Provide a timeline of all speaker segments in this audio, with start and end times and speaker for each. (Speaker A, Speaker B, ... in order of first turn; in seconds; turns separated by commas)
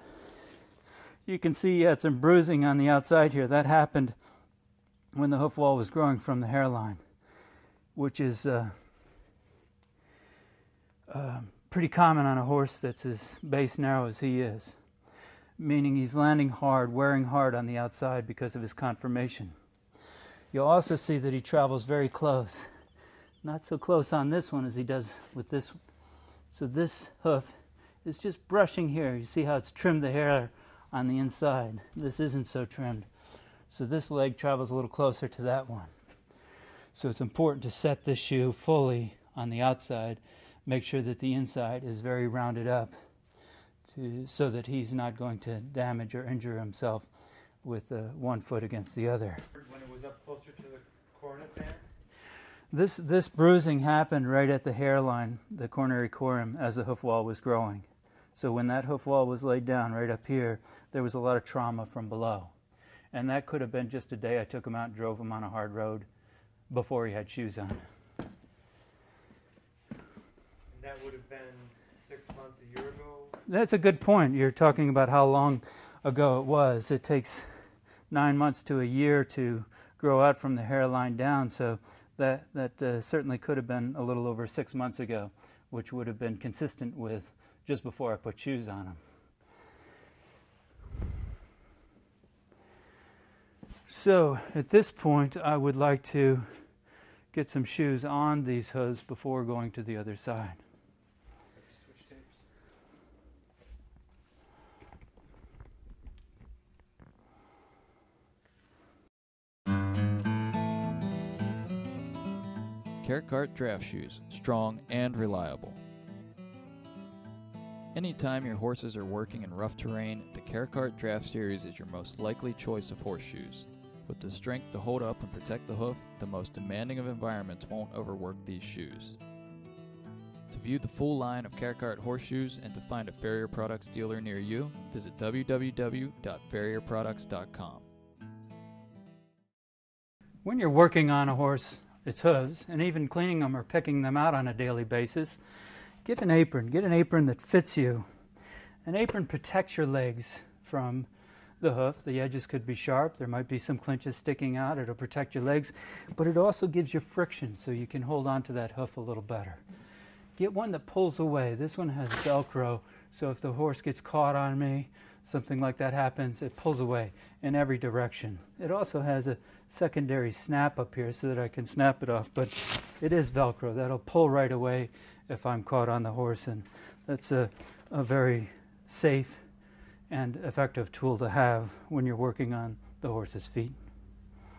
Speaker A: 1.2-4.2, Speaker A: 5.1-7.0, Speaker A: 7.9-8.7, Speaker A: 11.1-14.8, Speaker A: 15.6-19.5, Speaker A: 20.5-22.7, Speaker A: 23.4-25.8, Speaker A: 26.5-33.1, Speaker A: 33.7-35.9, Speaker A: 36.9-42.9, Speaker A: 43.9-47.1, Speaker A: 47.6-49.4, Speaker B: 49.5-51.8, Speaker A: 52.7-62.5, Speaker A: 63.1-66.0, Speaker A: 66.7-67.8, Speaker B: 70.7-73.4, Speaker A: 73.5-77.5, Speaker A: 78.1-89.0, Speaker A: 93.9-96.5, Speaker A: 97.3-100.6, Speaker B: 101.6-102.4, Speaker C: 113.0-115.8, Speaker C: 117.9-129.2, Speaker C: 130.5-137.8, Speaker A: 140.4-145.4, Speaker A: 146.0-148.1, Speaker A: 148.8-151.1, Speaker A: 151.6-159.6, Speaker A: 160.3-179.4, Speaker A: 180.1-183.8